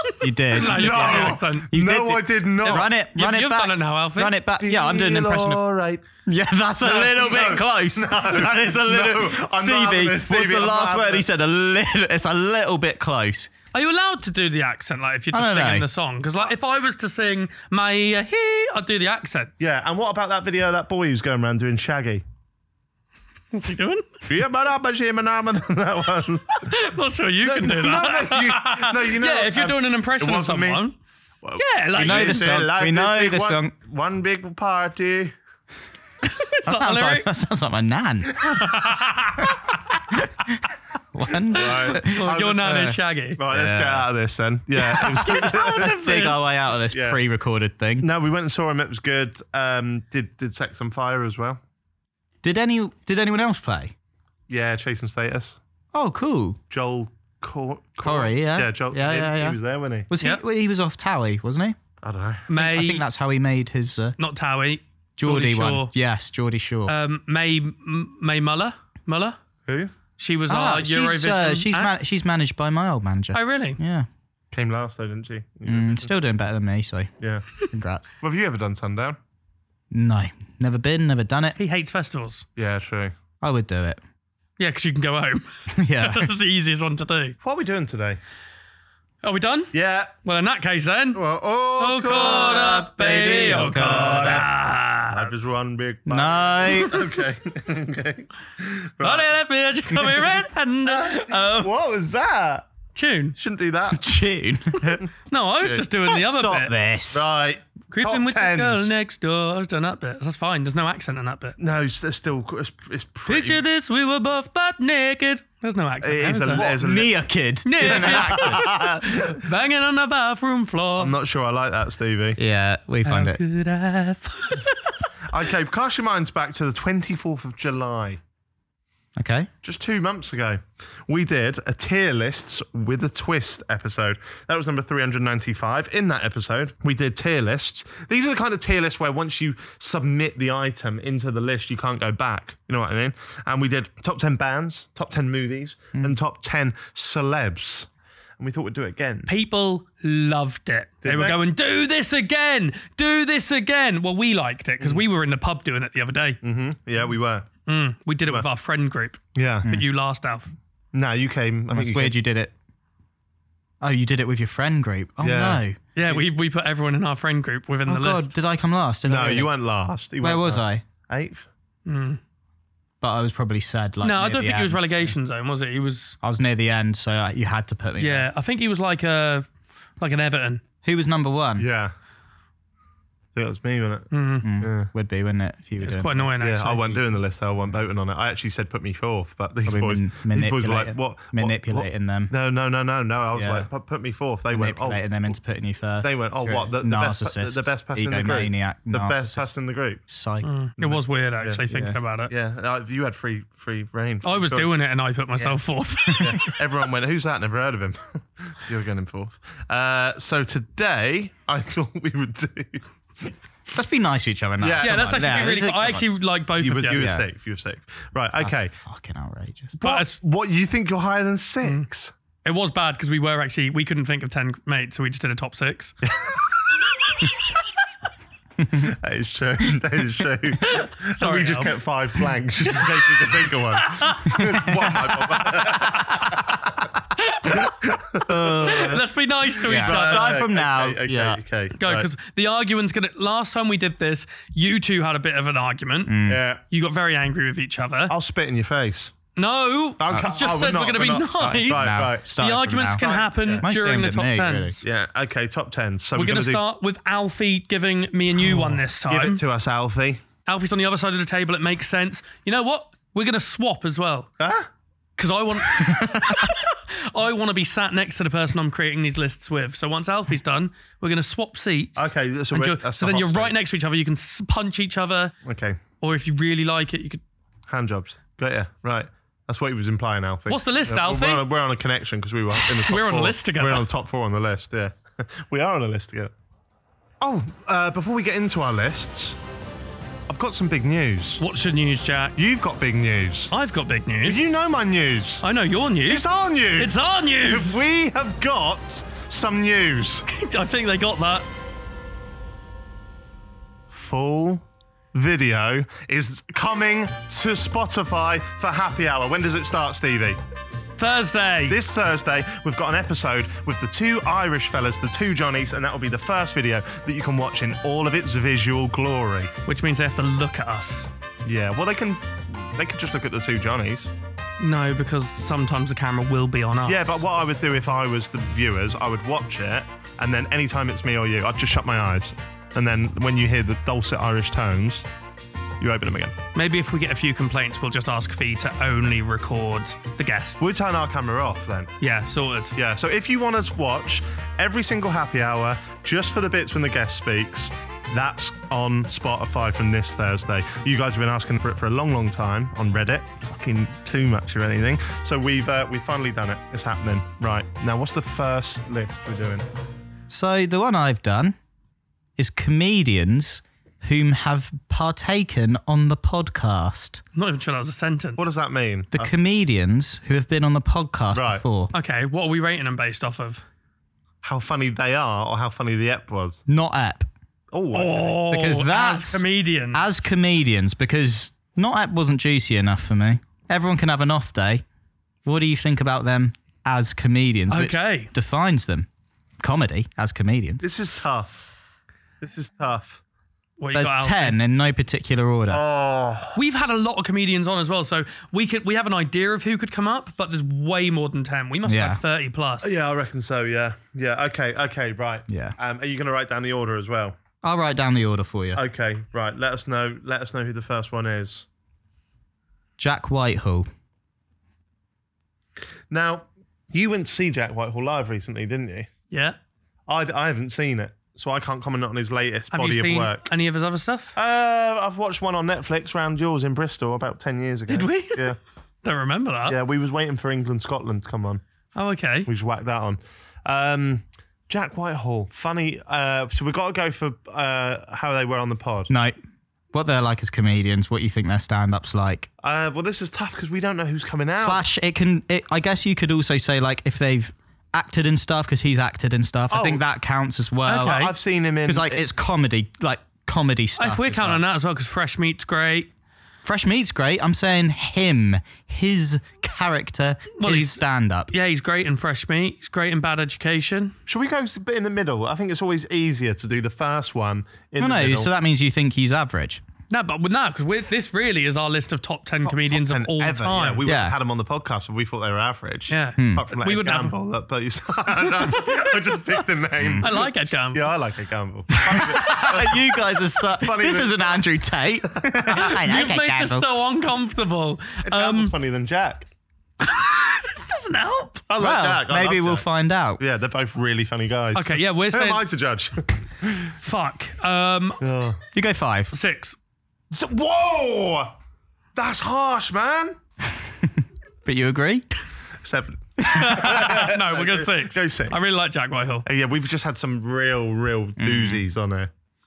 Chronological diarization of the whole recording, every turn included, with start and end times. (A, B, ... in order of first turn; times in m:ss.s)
0:00.2-0:05.6 A
0:00.5-0:01.7 B
0:00.5-0:02.9 C
0:03.1-0:04.4 B
0:04.6-0:06.0 C
0:06.2-0:13.5 A
0:06.8-0:11.3 C
0:13.7-0:19.5 B
0:15.3-0:15.8 A
0:19.6-0:22.2 C
0:23.5-0:24.1 B
0:24.2-0:26.7 C
0:26.6-0:31.0 B
0:27.4-0:30.8 C
0:31.4-0:35.3 C
0:31.6-0:32.5 B
0:32.0-0:33.7 A
0:36.2-0:37.4 B
0:36.7-0:38.7 A
0:38.5-0:39.5 B
0:40.1-0:40.6 A
0:41.1-0:42.9 A
0:41.5-0:47.2 C
0:41.6-0:43.4 B
0:43.5-0:44.1 A
0:44.8-0:48.1 A
0:45.2-0:46.4 B
0:48.0-0:51.6 C
0:52.4-0:53.9 A
0:54.5-0:55.6 C
0:55.9-0:56.6 A
0:56.7-1:00.1 C
0:58.0-0:59.6 A
1:00.1-1:01.8 A
1:02.0-1:02.5 C
1:02.5-1:03.0 B
1:02.6-1:04.2 A
1:04.2-1:05.9 B
1:05.2-1:06.9 A
1:06.9-1:09.4 B
1:09.7-1:09.9 C
1:10.2-1:11.9 B
1:10.5-1:14.1 A
1:13.3-1:13.8 B
1:14.5-1:16.1 C
1:15.7-1:17.1 A
1:17.2-1:17.4 C
1:17.7-1:18.1 A
1:18.2-1:19.2 C
1:19.9-1:21.6 A
1:21.6-1:22.5 B
1:22.6-1:23.1 C
1:23.4-1:24.0 A
1:24.6-1:27.4 B
1:25.7-1:26.3 A
1:27.4-1:28.2 C
1:29.2-1:31.2 B
1:29.7-1:30.1 C
1:31.2-1:34.5 C
1:31.8-1:35.3 B
1:33.4-1:34.5 A
1:35.1-1:39.3 C
1:36.1-1:37.0 A
1:39.0-1:41.7 B
1:39.9-1:42.7 C
1:43.0-1:43.4 B
1:43.4-1:44.1 C
1:43.9-1:45.0 A
1:45.3-1:46.7 B
1:45.6-1:45.9 C
1:46.1-1:47.3 A
1:47.1-1:48.9 C
1:47.9-1:51.6 B
1:51.6-1:53.6 C
1:53.3-1:56.8 B
1:56.0-1:57.2 C
1:56.6-1:58.7 A
1:57.6-2:01.1 B
1:57.8-1:59.4 C
2:01.0-2:02.4 C
2:02.4-2:03.4 A
2:03.0-2:04.9 B
2:05.3-2:08.2 C
2:09.2-2:09.5 A
2:09.6-2:27.9 C
2:28.4-2:29.3 C
2:29.3-2:36.4 B
2:31.0-2:31.4 C
2:36.4-2:37.5 C
2:37.7-2:40.5 B
2:39.4-2:39.7 C
2:40.9-2:42.2 C
2:41.7-2:42.5 A
2:43.8-2:45.8 A
2:45.2-2:46.2 C
2:46.0-2:48.3 B
2:47.9-2:49.5 A
2:49.1-2:51.5 C
2:50.2-2:50.8 A
2:51.9-2:52.2 B
2:53.0-2:55.1 A
2:54.0-2:56.2 B
2:56.2-2:58.3 A
2:58.0-2:59.5 B
3:00.0-3:00.6 B
3:00.8-3:01.7 A
3:01.6-3:01.9 C
3:03.4-3:04.9 C
3:04.1-3:04.5 B
3:04.4-3:06.3 A
3:05.8-3:07.0 B
3:06.4-3:15.3 C
3:09.7-3:12.3 A
3:13.4-3:13.7 A
3:14.5-3:19.4 A
3:16.0-3:20.0 C
3:20.1-3:20.5 A
3:20.4-3:22.3 B
3:20.8-3:21.7 C
3:22.3-3:24.8 C
3:24.2-3:26.5 B
3:26.2-3:33.3 C
3:33.7-3:36.1 A
3:34.6-3:35.6 C
3:34.8-3:37.0 B
3:36.6-3:38.7 C
3:37.0-3:37.2 A
3:38.4-3:39.8 A
3:39.8-3:42.1 C
3:39.8-3:40.2 B
3:42.4-3:46.0 B
3:46.0-3:46.6 C
3:48.7-3:56.8 C
3:50.6-3:51.8 B
3:52.7-3:54.6 B
3:54.5-3:54.8 A
3:55.4-3:56.2 B
3:57.2-3:57.7 B
3:57.5-3:59.0 C
3:58.3-3:59.0 A
3:58.6-4:00.4 B
3:59.6-4:01.4 A
3:59.6-4:02.1 C
4:01.8-4:08.1 B
4:06.1-4:06.4 A
4:06.3-4:06.6 C
4:08.1-4:09.1 C
4:09.4-4:14.8 B
4:10.0-4:12.3 C
4:11.4-4:13.0 A
4:13.0-4:13.7 C
4:13.6-4:14.8 A
4:14.8-4:16.6 C
4:16.2-4:19.4 B
4:19.1-4:20.2 C
4:20.5-4:24.3 B
4:24.4-4:24.7 C
4:25.2-4:35.4 B
4:32.0-4:33.5 C
4:35.4-4:35.8 C
4:36.0-4:37.2 B
4:37.7-4:46.3 C
4:40.5-4:41.4 B
4:42.6-4:43.9 B
4:47.2-4:49.4 C
4:50.3-4:51.4 C
4:51.4-4:52.4 B
4:52.4-4:53.5 C
4:53.5-4:54.5 B
4:54.3-4:55.4 C
4:55.4-4:57.8 B
4:56.1-5:00.3 C
5:00.3-5:01.5 B
5:03.9-5:10.4 C
5:11.0-5:11.8 B
5:11.7-5:19.5 C
5:19.7-5:21.1 B
5:21.4-5:24.1 C
5:24.6-5:27.2 B
5:26.9-5:35.1 C
5:35.8-5:36.4 C
5:36.6-5:40.6 B
5:40.6-5:41.9 C
5:42.0-5:42.8 B
5:42.8-5:59.6 C
6:00.3-6:01.6 A
6:02.4-6:07.2 A
6:07.4-6:08.4 B
6:08.4-6:09.3 C
6:09.1-6:11.9 A
6:11.3-6:11.6 C
6:11.9-6:13.6 B
6:14.4-6:16.6 C
6:16.7-6:17.3 A
6:17.7-6:18.4 C
6:17.9-6:20.2 B
6:18.5-6:24.8 A
6:25.5-6:29.1 A
6:27.7-6:28.3 B
6:29.6-6:30.8 A
6:30.8-6:31.6 C
6:32.4-6:33.2 C
6:33.8-6:34.6 B
6:33.9-6:35.8 A
6:35.7-6:36.6 C
6:36.6-6:43.0 B
6:41.9-6:42.2 A
6:42.8-6:47.4 C
6:45.5-6:45.8 A
6:47.6-6:48.8 A
6:48.7-6:51.7 C
6:53.0-6:53.9 A
6:56.1-6:59.1 C
6:59.3-6:59.6 B
7:00.1-7:03.5 C
7:02.7-7:04.4 B
7:04.4-7:08.6 C
7:07.9-7:09.8 B
7:09.7-7:11.6 C
7:12.0-7:12.5 B
7:12.5-7:19.1 C
7:19.1-7:19.4 A
7:19.9-7:22.5 A
7:22.6-7:24.8 C
7:24.6-7:31.3 A
7:29.7-7:30.0 C
7:30.9-7:31.3 B
7:30.9-7:32.2 C
7:31.8-7:34.6 A
7:34.0-7:36.1 B
7:36.6-7:41.5 A
7:40.6-7:44.1 B
7:44.3-7:48.5 C
7:48.0-7:49.8 A
7:50.1-7:54.0 B
7:52.6-8:03.1 C
7:54.0-7:54.4 A
7:56.1-7:57.4 B
7:56.4-7:56.6 A
7:58.7-7:59.2 B
8:00.0-8:00.3 A
8:00.2-8:01.1 B
8:01.9-8:06.9 A
8:03.6-8:04.7 C
8:05.5-8:05.9 C
8:05.8-8:08.7 B
8:08.2-8:09.5 C
8:10.0-8:11.6 B
8:11.7-8:12.9 C
8:11.8-8:13.4 A
8:13.4-8:16.9 C
8:14.8-8:15.6 B
8:17.0-8:18.2 B
8:18.2-8:18.6 C
8:18.7-8:19.3 A
8:19.3-8:19.8 B
8:20.3-8:21.5 C
8:22.2-8:23.4 C
8:24.6-8:25.3 A
8:25.8-8:28.6 C
8:26.4-8:29.5 B
8:29.4-8:32.3 C
8:31.4-8:31.8 A